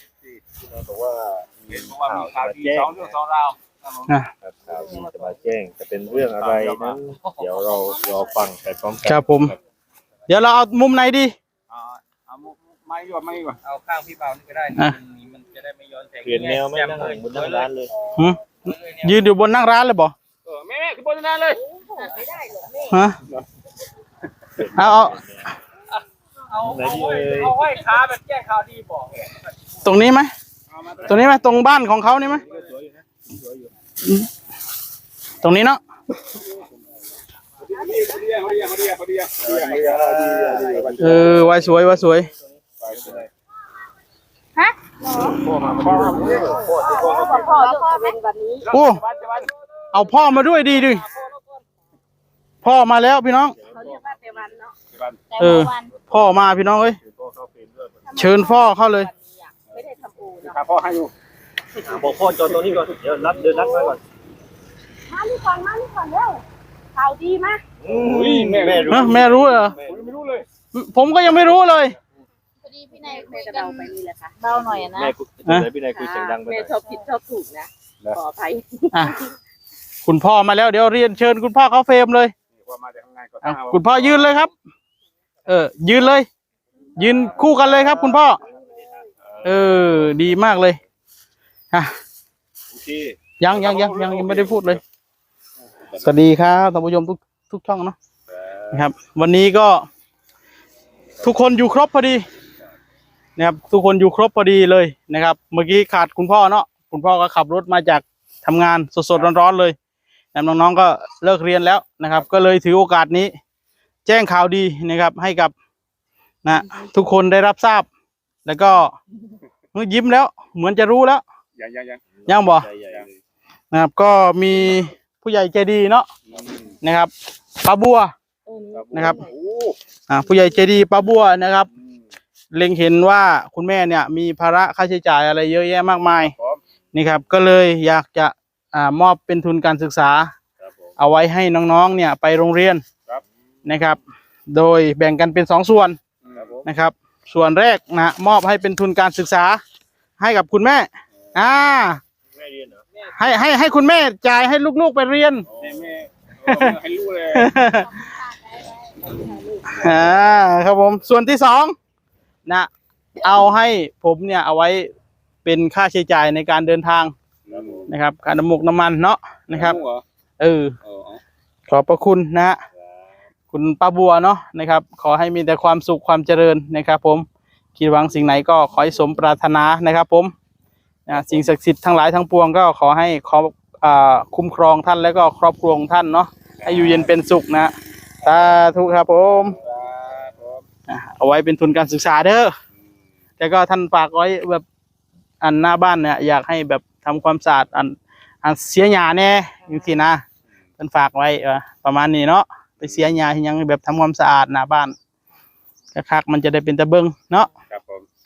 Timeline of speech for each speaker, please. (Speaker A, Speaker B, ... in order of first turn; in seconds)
Speaker A: 0.7-3.1, 4.4-9.4, 16.2-17.9, 24.6-25.5, 26.6-27.6, 39.5-41.3, 45.5-47.5, 53.7-54.0, 57.2-57.9, 61.8-64.0, 67.8-69.9, 74.7-76.8, 122.2-123.1, 152.4-152.8, 167.5-167.8
Speaker B: 1.7-4.1, 6.2-7.0, 12.3-13.6, 20.5-21.6, 30.7-31.4, 36.4-36.6, 37.7-41.5, 42.8-43.3, 45.6-47.3, 48.7-49.5, 54.9-55.2, 60.4-61.1, 62.5-62.9, 67.9-69.2, 69.8-70.5, 82.5-84.4, 87.0-88.0, 89.5-89.9, 92.8-94.8, 98.3-98.7, 121.6-122.0, 126.3-126.8, 128.7-129.8, 131.8-132.0, 146.2-146.6, 155.5-157.5, 167.5-167.9, 169.5-170.0, 170.9-171.2, 186.6-187.0, 189.6-190.6, 207.7-208.1
Speaker C: 7.2-8.1, 13.6-17.7, 18.6-19.2, 22.0-22.3, 26.5-29.1, 47.0-47.4
Speaker D: 9.1-9.6, 10.3-11.3, 18.2-20.1, 22.9-23.2, 24.7-25.2, 29.8-30.3, 31.1-32.4, 35.4-35.8, 41.0-42.3, 48.7-49.0, 49.9-51.1, 52.6-53.6, 55.4-57.0, 58.2-59.1, 68.9-69.8, 70.7-72.0, 78.9-79.2, 80.0-82.3, 83.4-84.5, 85.5-86.3, 87.0-88.4, 89.4-90.8, 93.4-94.8, 96.0-98.0, 98.7-99.8, 101.2-102.2, 103.4-109.8, 110.3-113.3, 114.0-115.5, 116.4-117.9, 118.5-119.0, 119.7-121.2, 122.3-122.7, 123.7-126.1, 126.8-128.1, 128.9-129.2, 130.1-131.7, 132.5-136.3, 136.9-140.3, 141.0-142.8, 143.7-144.0, 144.5-146.0, 146.7-149.6, 150.2-152.0, 153.2-155.5, 156.5-156.7, 157.3-158.1, 159.7-161.8, 162.5-164.9, 165.4-167.1, 167.9-169.8, 170.4-170.8, 171.7-172.6, 173.5-180.3, 181.1-187.7, 188.2-189.6, 190.9-192.6, 193.4-194.6, 195.4-200.2, 200.8-204.9, 205.9-207.5
Speaker E: 21.7-22.9, 37.9-38.3, 44.6-45.4, 46.3-48.7, 53.7-54.8, 55.3-55.9, 58.1-60.6, 63.5-63.9, 65.1-66.4, 67.0-67.6, 72.6-75.1, 75.9-79.3, 128.5-129.3, 158.0-159.8